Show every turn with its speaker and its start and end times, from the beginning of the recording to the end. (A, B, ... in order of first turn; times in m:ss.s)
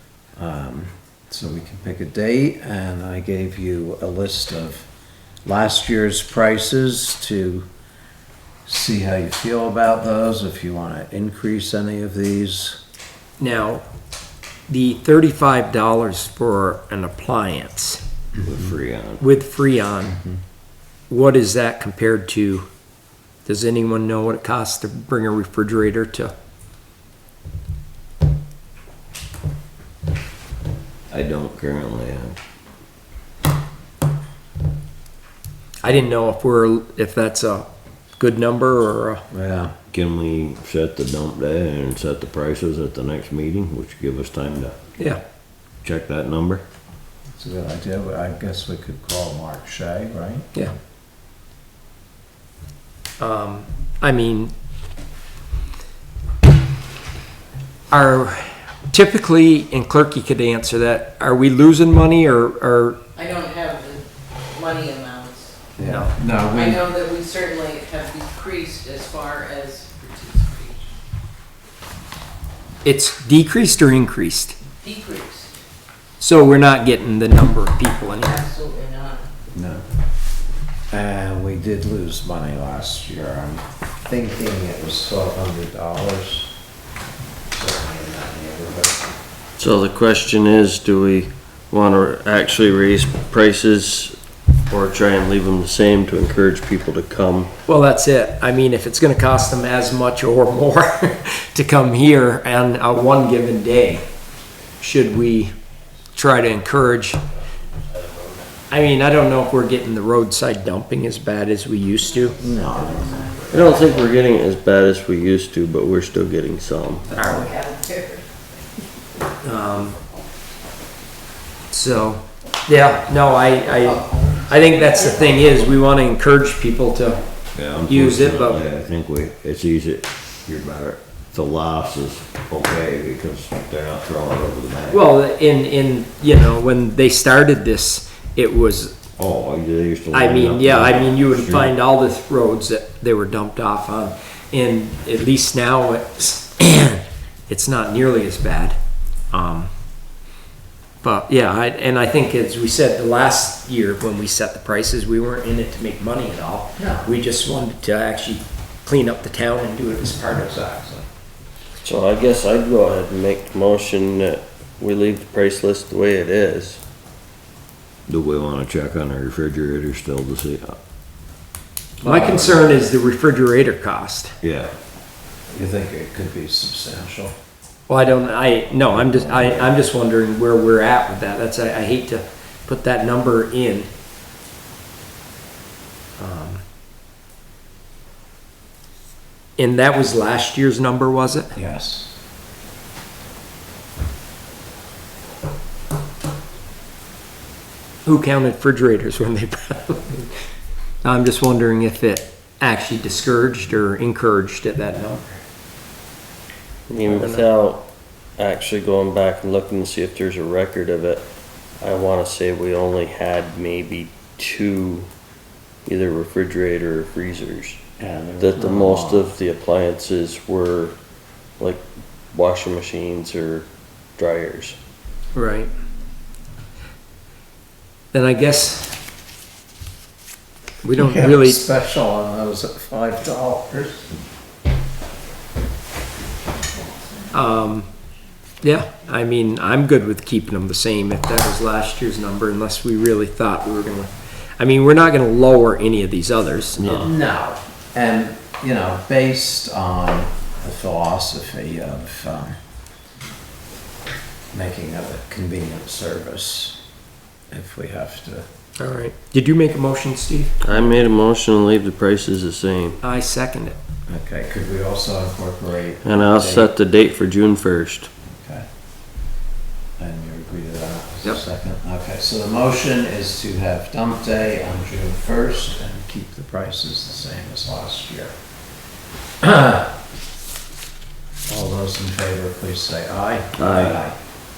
0:00.4-0:04.9 A
0:05.4-0:07.7 A
0:08.7-0:12.8 A
0:13.4-0:13.8 B
0:14.7-0:18.0 B
0:18.4-0:19.2 C
0:19.2-0:20.2 B
0:21.1-0:22.7 B
0:23.5-0:26.3 B
0:31.1-0:32.4 C
0:35.8-0:39.2 B
0:39.3-0:39.8 A
0:39.9-0:44.8 C
0:45.8-0:46.6 C
0:47.3-0:50.6 A
0:53.2-0:54.5 B
0:57.9-1:03.0 B
1:03.2-1:05.6 D
1:05.8-1:06.9 A
1:05.8-1:06.2 B
1:06.5-1:10.8 D
1:12.8-1:14.6 B
1:14.8-1:15.5 D
1:16.2-1:18.4 B
1:18.1-1:19.3 D
1:19.5-1:19.8 A
1:20.9-1:26.5 A
1:27.5-1:29.1 A
1:29.6-1:34.2 E
1:34.7-1:37.5 E
1:37.7-1:44.1 B
1:44.8-1:45.5 B
1:46.2-1:47.2 B
1:48.7-1:52.4 B
1:52.1-1:54.2 D
1:52.4-1:53.8 A
1:53.5-1:57.1 E
1:57.1-1:58.3 D
1:57.2-1:57.5 B
1:59.4-2:00.0 B
2:01.7-2:07.2 B
2:03.6-2:05.5 D
2:07.6-2:15.1 C
2:07.8-2:08.6 B
2:14.9-2:19.0 B
2:19.2-2:21.7 C
2:20.1-2:28.8 B
2:29.3-2:29.7 B
2:31.0-2:40.7 B
2:36.8-2:37.1 A
2:40.4-2:41.1 A
2:41.8-2:46.8 E
2:48.1-2:50.8 C
2:52.0-2:52.9 A
2:52.0-2:54.4 B
2:54.4-2:54.7 C
2:55.5-2:57.4 A
2:57.9-3:03.9 B
3:06.2-3:06.6 B
3:09.6-3:11.5 B
3:11.5-3:12.1 A
3:18.0-3:20.3 B
3:21.0-3:25.4 B
3:26.9-3:27.8 E
3:27.1-3:27.5 B
3:28.4-3:31.3 E
3:31.8-3:35.1 E
3:35.9-3:37.8 E
3:38.0-3:39.4 A
3:38.4-3:41.0 E
3:41.6-3:44.8 E
3:45.4-3:45.7 B
3:48.1-3:49.0 B
3:50.8-3:51.6 B
3:51.0-3:54.1 A
3:57.3-3:57.9 B
3:58.6-4:07.1 B
4:06.8-4:07.1 C
4:07.0-4:12.6 A
4:14.5-4:16.8 A
4:17.5-4:18.5 A
4:18.8-4:20.7 B
4:20.6-4:23.0 E
4:23.0-4:23.8 B
4:24.1-4:26.7 A
4:26.0-4:28.1 E
4:28.2-4:28.7 A
4:30.0-4:38.3 A
4:39.4-4:39.9 A
4:41.5-4:44.2 A
4:43.6-4:43.9 E